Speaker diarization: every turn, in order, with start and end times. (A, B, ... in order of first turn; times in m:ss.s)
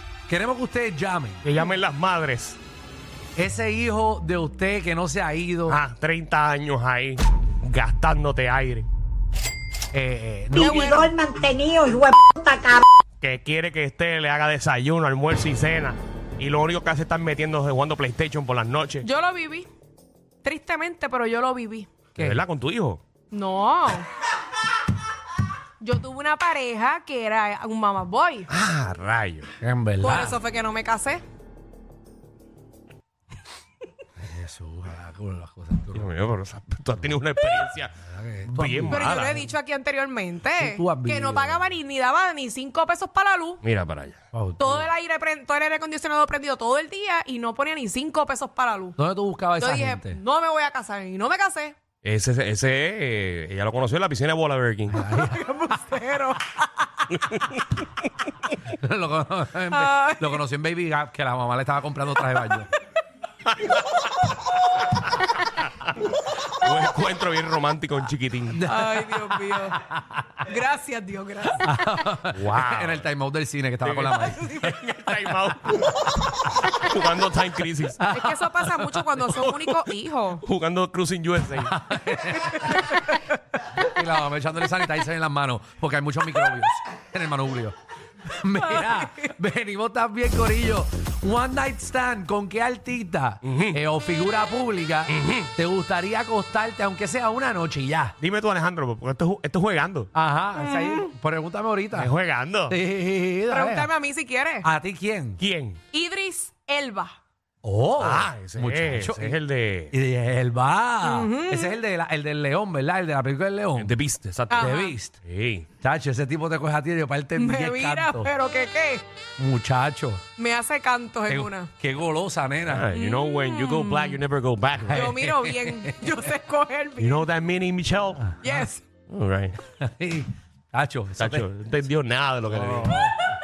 0:00.3-0:01.4 A
0:01.4-0:02.6 B
0:03.4-0:05.8 A
0:05.7-0:08.9 B
0:09.9-0:11.1 A
0:10.5-0:12.8 C
0:10.6-0:11.0 D
0:13.2-0:19.1 B
0:19.0-0:19.7 D
0:20.4-0:21.9 D
0:22.2-0:23.0 B
0:23.3-0:24.1 D
0:25.8-0:28.5 D
0:28.5-0:29.5 B
0:29.6-0:30.4 A
0:30.0-0:31.2 D
0:34.2-0:36.1 A
0:35.9-0:37.9 B
0:38.1-0:39.3 A
0:38.5-0:39.5 B
0:38.9-0:43.6 D
0:40.6-0:41.8 A
0:43.6-0:44.2 B
0:44.3-0:44.9 A
0:44.6-0:49.0 D
0:49.0-0:50.2 A
0:49.6-0:51.8 D
0:52.0-0:55.0 B
0:54.9-0:55.5 A
0:55.5-0:56.4 D
0:57.1-0:57.8 B
0:58.7-1:02.7 A
0:59.8-1:00.3 D
1:06.6-1:08.7 B
1:08.5-1:10.2 A
1:08.7-1:09.8 D
1:10.4-1:11.6 D
1:11.5-1:14.6 A
1:12.3-1:13.1 B
1:13.8-1:16.0 B
1:15.2-1:15.5 A
1:16.7-1:18.1 B
1:18.0-1:19.0 A
1:18.1-1:20.4 D
1:19.1-1:19.9 B
1:20.4-1:21.8 B
1:21.6-1:23.1 A
1:23.7-1:27.8 A
1:28.3-1:38.2 A
1:33.4-1:33.8 B
1:35.1-1:35.5 B
1:38.2-1:40.1 B
1:40.1-1:42.1 A
1:41.9-1:42.8 B
1:42.7-1:43.9 A
1:43.5-1:44.7 D
1:44.6-1:45.4 A
1:45.4-1:45.8 B
1:45.9-1:47.2 D
1:47.6-1:49.4 A
1:48.0-1:49.9 B
1:49.9-1:54.0 A
1:51.1-1:51.7 D
1:53.8-1:55.7 B
1:54.5-1:55.2 A
1:54.6-1:54.8 D
1:55.8-1:58.3 A
1:57.4-1:59.0 D
1:59.4-2:00.2 A
2:00.4-2:01.7 D
2:01.3-2:02.9 A
2:02.7-2:05.1 B
2:03.0-2:04.0 D
2:04.8-2:06.2 A
2:05.0-2:07.1 D
2:07.0-2:08.4 B
2:08.2-2:08.7 A
2:08.5-2:08.8 D
2:09.1-2:09.6 B
2:09.8-2:11.5 A
2:11.2-2:13.0 B
2:12.5-2:13.3 A